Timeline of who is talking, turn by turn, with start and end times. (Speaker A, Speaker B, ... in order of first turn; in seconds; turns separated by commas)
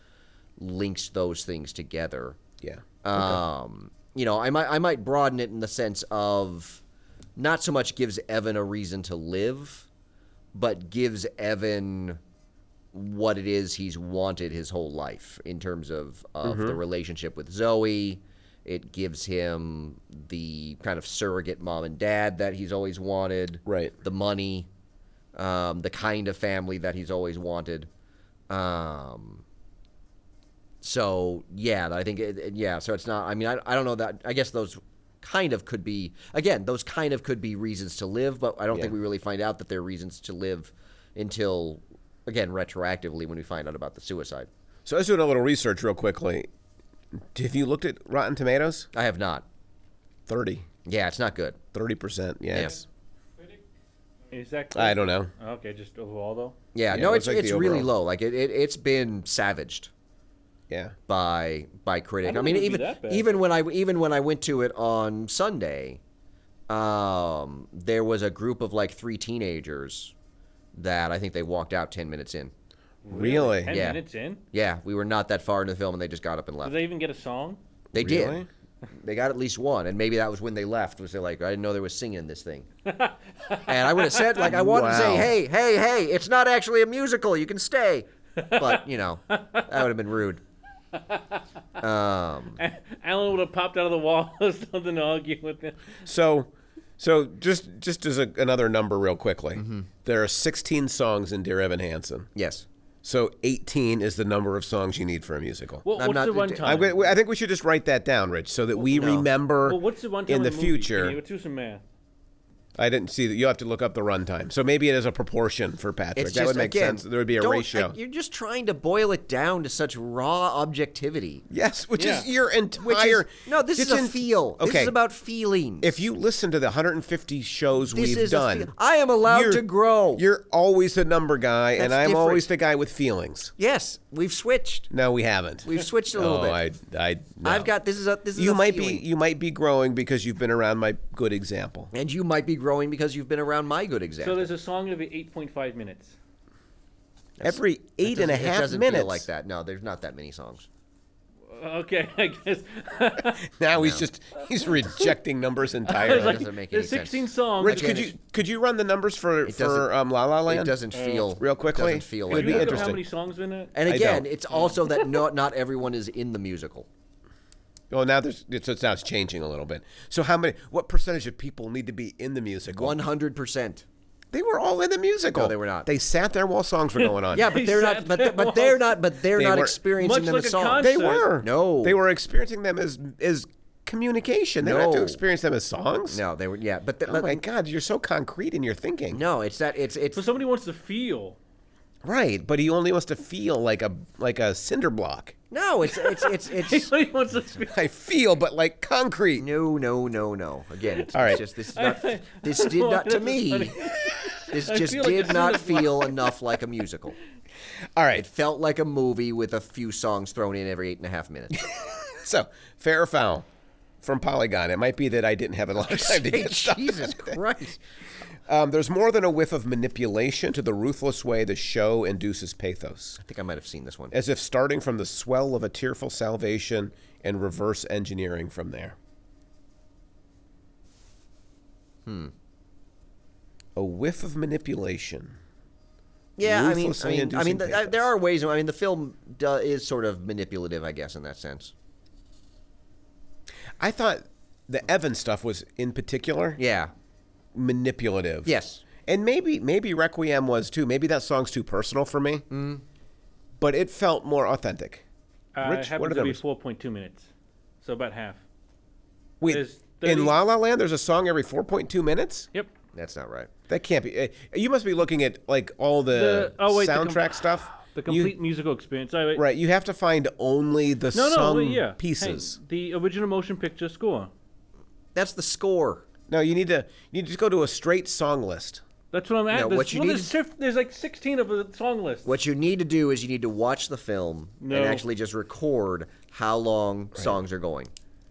Speaker A: 0.6-2.4, Speaker B: 2.6-3.4, Speaker A: 3.0-6.8, Speaker A: 7.4-9.9, Speaker A: 10.5-12.2, Speaker A: 12.9-24.7, Speaker B: 16.4-16.8, Speaker B: 23.6-23.9, Speaker A: 25.3-27.9, Speaker A: 28.5-29.4, Speaker A: 30.8-44.5, Speaker B: 44.9-46.5, Speaker B: 47.3-48.9, Speaker A: 48.9-49.5, Speaker B: 50.3-50.7, Speaker A: 50.8-51.6, Speaker B: 51.7-52.9, Speaker C: 54.3-56.5, Speaker B: 54.7-55.3, Speaker A: 56.7-59.9, Speaker B: 56.9-57.9, Speaker B: 60.7-60.9, Speaker A: 61.1-66.0, Speaker C: 62.2-63.3, Speaker A: 66.7-70.1, Speaker A: 70.7-72.5, Speaker C: 73.0-74.4, Speaker B: 73.1-73.8, Speaker A: 73.7-74.0, Speaker A: 74.5-76.8, Speaker C: 76.6-77.6, Speaker A: 77.9-78.4, Speaker B: 77.9-78.5, Speaker A: 79.0-82.7, Speaker C: 82.8-84.3, Speaker A: 83.6-90.4, Speaker B: 84.4-85.3, Speaker C: 88.4-89.7, Speaker A: 91.8-92.6, Speaker C: 92.6-95.8, Speaker B: 96.0-102.3, Speaker A: 99.5-99.9, Speaker A: 102.3-102.7, Speaker B: 103.0-105.8, Speaker C: 105.8-107.0, Speaker A: 106.0-106.9, Speaker B: 106.6-111.2, Speaker A: 108.8-109.3, Speaker C: 109.6-111.8, Speaker B: 112.8-118.0, Speaker A: 116.2-121.4, Speaker B: 121.5-124.9, Speaker C: 122.0-122.3, Speaker A: 122.8-126.0, Speaker B: 125.8-128.7, Speaker A: 127.9-130.2, Speaker B: 129.2-129.6, Speaker B: 130.2-133.5, Speaker A: 131.8-132.5, Speaker A: 133.6-134.9, Speaker B: 134.9-137.7, Speaker A: 135.6-136.6, Speaker A: 137.4-139.0, Speaker B: 138.3-141.9, Speaker A: 141.9-144.5, Speaker C: 144.2-146.1, Speaker A: 147.4-150.6, Speaker B: 147.4-149.2, Speaker C: 151.5-153.4, Speaker B: 153.4-156.4, Speaker A: 153.8-154.0, Speaker C: 155.9-158.1, Speaker A: 155.9-158.1, Speaker B: 157.6-160.8, Speaker A: 159.4-159.9, Speaker A: 160.4-163.0, Speaker C: 160.9-161.3, Speaker B: 161.4-163.0, Speaker C: 162.3-163.7, Speaker A: 163.7-166.9, Speaker B: 163.9-164.2, Speaker B: 167.9-173.0, Speaker A: 172.8-173.8, Speaker B: 174.3-177.5, Speaker A: 175.3-175.9, Speaker C: 177.0-179.0, Speaker A: 177.3-182.0, Speaker B: 179.4-179.8, Speaker C: 179.9-181.3, Speaker B: 180.8-186.2, Speaker A: 184.6-185.2, Speaker A: 186.1-187.4, Speaker B: 187.1-189.2, Speaker A: 189.1-190.2, Speaker C: 190.1-191.4, Speaker B: 192.0-195.3, Speaker A: 195.5-196.9, Speaker C: 195.9-197.9, Speaker B: 197.7-199.4, Speaker A: 199.4-203.8, Speaker B: 201.1-201.4, Speaker C: 201.7-206.3, Speaker A: 204.5-207.2, Speaker B: 207.9-208.2, Speaker A: 208.1-211.6, Speaker B: 211.6-213.4, Speaker B: 214.0-217.4, Speaker A: 215.8-217.8, Speaker B: 218.5-223.2, Speaker A: 223.2-224.1, Speaker B: 224.1-228.9, Speaker A: 232.1-232.3, Speaker B: 233.8-235.4, Speaker A: 236.4-241.7, Speaker B: 236.4-238.1, Speaker B: 243.8-246.6, Speaker A: 246.6-246.9, Speaker B: 247.5-248.5, Speaker A: 248.4-248.8, Speaker B: 249.0-252.4, Speaker A: 252.5-252.8, Speaker B: 253.6-255.0, Speaker C: 255.5-257.3, Speaker B: 255.6-256.4, Speaker C: 257.8-258.4, Speaker B: 259.4-262.5, Speaker C: 259.4-260.3, Speaker A: 262.9-263.5, Speaker B: 263.7-268.3, Speaker C: 266.1-269.4, Speaker B: 269.3-272.6, Speaker C: 271.1-274.3, Speaker A: 275.1-276.0, Speaker B: 276.3-278.8, Speaker C: 279.1-282.3, Speaker A: 279.5-280.3, Speaker A: 282.2-287.9, Speaker C: 284.6-285.0